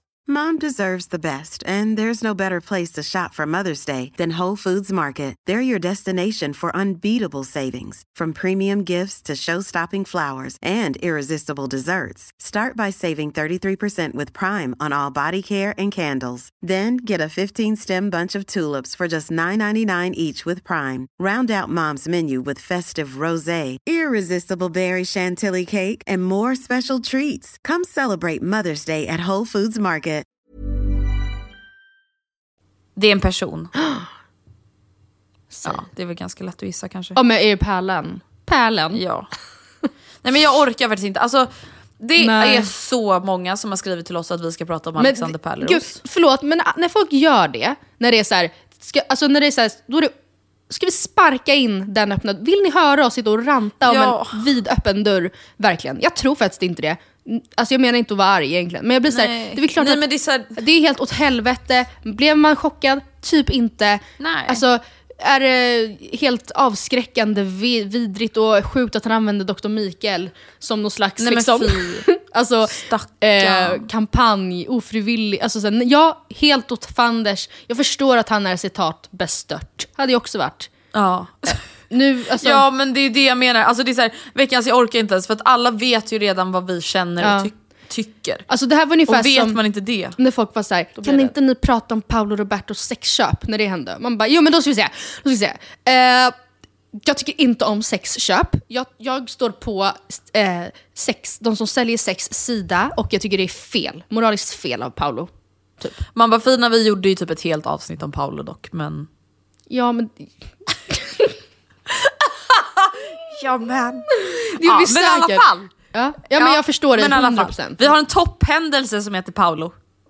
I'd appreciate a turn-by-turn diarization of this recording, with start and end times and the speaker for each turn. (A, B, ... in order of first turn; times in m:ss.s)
0:00.3-0:30.2 A
0:33.0-0:33.7 B
0:33.8-0:34.1 C
0:35.5-0:35.8 C
0:35.6-0:37.2 B
0:37.2-0:39.0 C
0:38.9-0:39.3 B
0:40.2-0:46.0 B
0:42.2-0:42.7 C
0:45.0-0:50.1 C
0:50.7-1:00.0 C
0:53.8-0:54.4 B
0:59.1-1:00.6 B
1:00.5-1:20.7 C
1:04.2-1:04.6 B
1:11.2-1:12.1 B
1:12.7-1:13.9 B
1:20.9-1:21.7 B
1:21.5-1:22.6 C
1:22.4-1:28.5 B
1:27.2-1:27.5 C
1:28.5-1:29.6 C
1:29.1-1:30.2 B
1:30.2-1:36.3 C
1:31.0-1:31.3 B
1:36.9-1:45.3 C
1:46.1-1:49.1 B
1:49.7-1:50.3 C
1:50.9-1:51.3 C
1:52.0-1:55.7 B
1:54.2-1:57.9 C
1:56.3-1:59.7 B